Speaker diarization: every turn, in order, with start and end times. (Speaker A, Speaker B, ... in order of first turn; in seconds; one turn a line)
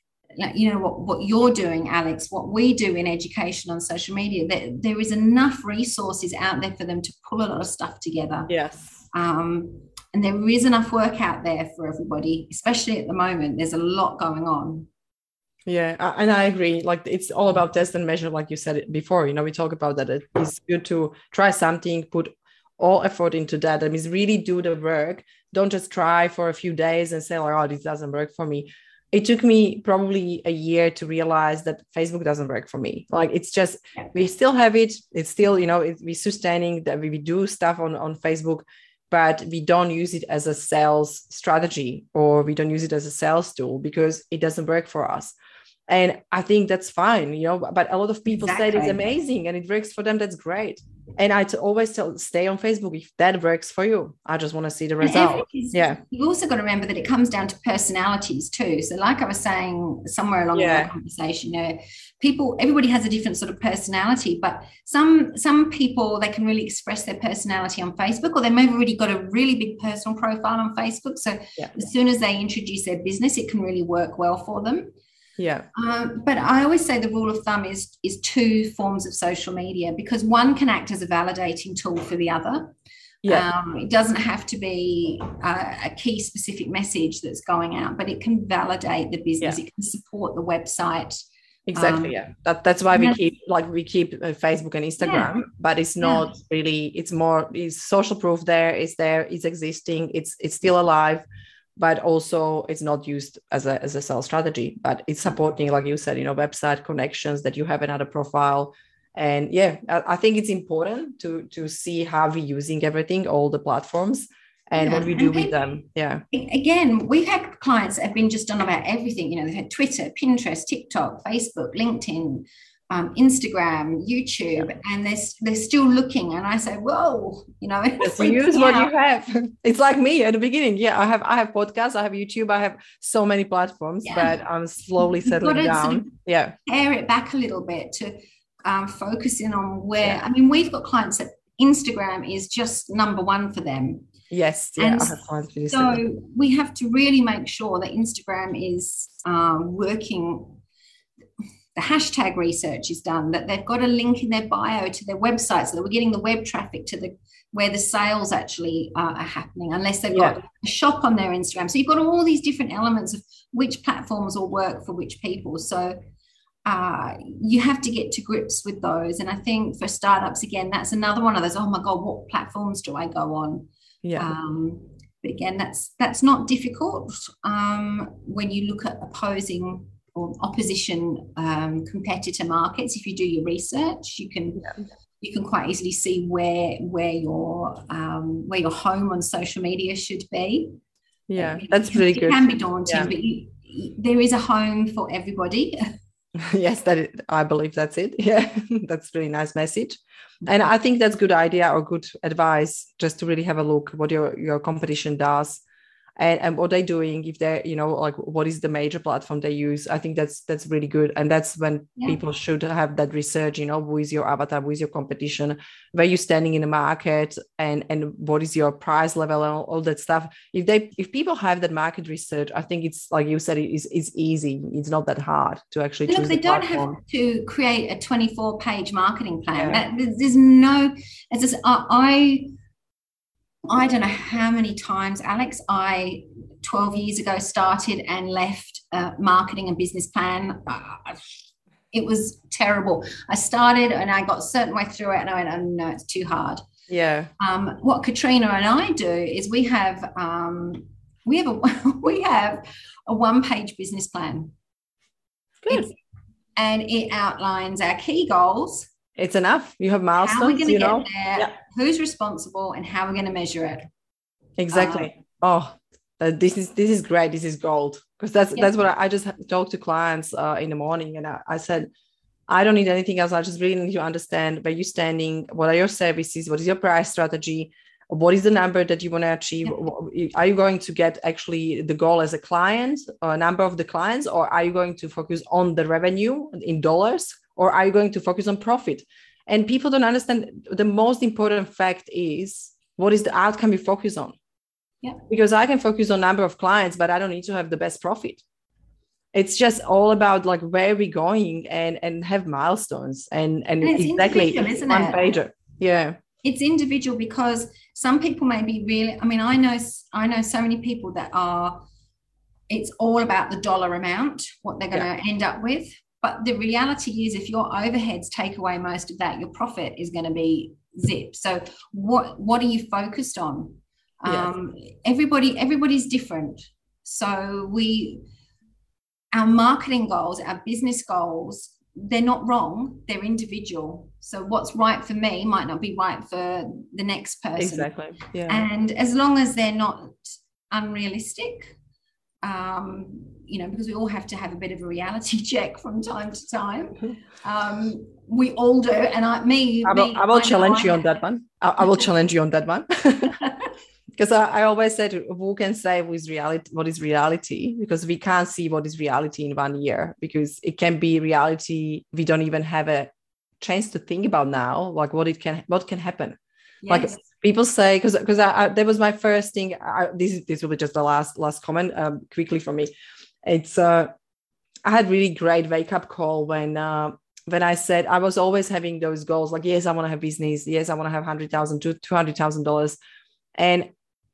Speaker A: 0.4-8.5
Speaker B: 8.5-9.0
Speaker A: 9.1-14.9
Speaker B: 15.7-45.3
Speaker B: 45.9-56.0
Speaker A: 48.3-49.0
Speaker A: 55.0-74.9
Speaker B: 60.5-60.9
Speaker B: 75.4-75.7
Speaker A: 75.8-82.7
Speaker A: 83.3-91.2
Speaker B: 91.7-101.2
Speaker A: 91.8-92.2
Speaker A: 92.9-93.2
Speaker A: 95.0-95.3
Speaker A: 96.0-96.3
Speaker B: 101.8-116.2
Speaker A: 114.8-115.6
Speaker A: 116.3-128.9
Speaker B: 128.0-136.5
Speaker A: 134.1-134.3
Speaker A: 135.0-136.1
Speaker A: 136.7-144.1
Speaker B: 144.3-146.0
Speaker A: 144.8-145.2
Speaker A: 145.7-150.6
Speaker A: 151.8-166.0
Speaker B: 160.1-160.4
Speaker A: 166.7-184.7
Speaker B: 174.0-174.3
Speaker A: 185.2-190.8
Speaker B: 191.3-193.1
Speaker A: 191.4-195.8
Speaker B: 196.4-205.6
Speaker B: 206.2-227.0
Speaker A: 226.1-232.5
Speaker B: 229.6-229.8
Speaker A: 233.7-241.2
Speaker A: 241.9-246.6
Speaker B: 246.9-247.3
Speaker A: 247.4-254.5
Speaker B: 255.6-255.9
Speaker A: 255.7-255.9
Speaker A: 256.6-258.9
Speaker B: 259.2-261.5
Speaker A: 260.2-263.9
Speaker B: 264.6-271.9
Speaker A: 264.7-265.1
Speaker B: 272.5-294.4
Speaker B: 295.3-298.4
Speaker B: 299.3-306.2
Speaker A: 303.8-305.3
Speaker A: 306.4-311.8
Speaker A: 312.7-328.2
Speaker B: 324.3-324.5
Speaker A: 329.3-337.9
Speaker B: 337.6-338.6
Speaker A: 338.5-341.7
Speaker A: 342.4-351.2
Speaker B: 349.9-353.4
Speaker A: 353.4-353.7
Speaker B: 354.2-366.4
Speaker A: 366.8-367.2
Speaker B: 366.9-372.9
Speaker B: 373.4-374.1
Speaker B: 374.9-383.0
Speaker B: 383.6-383.9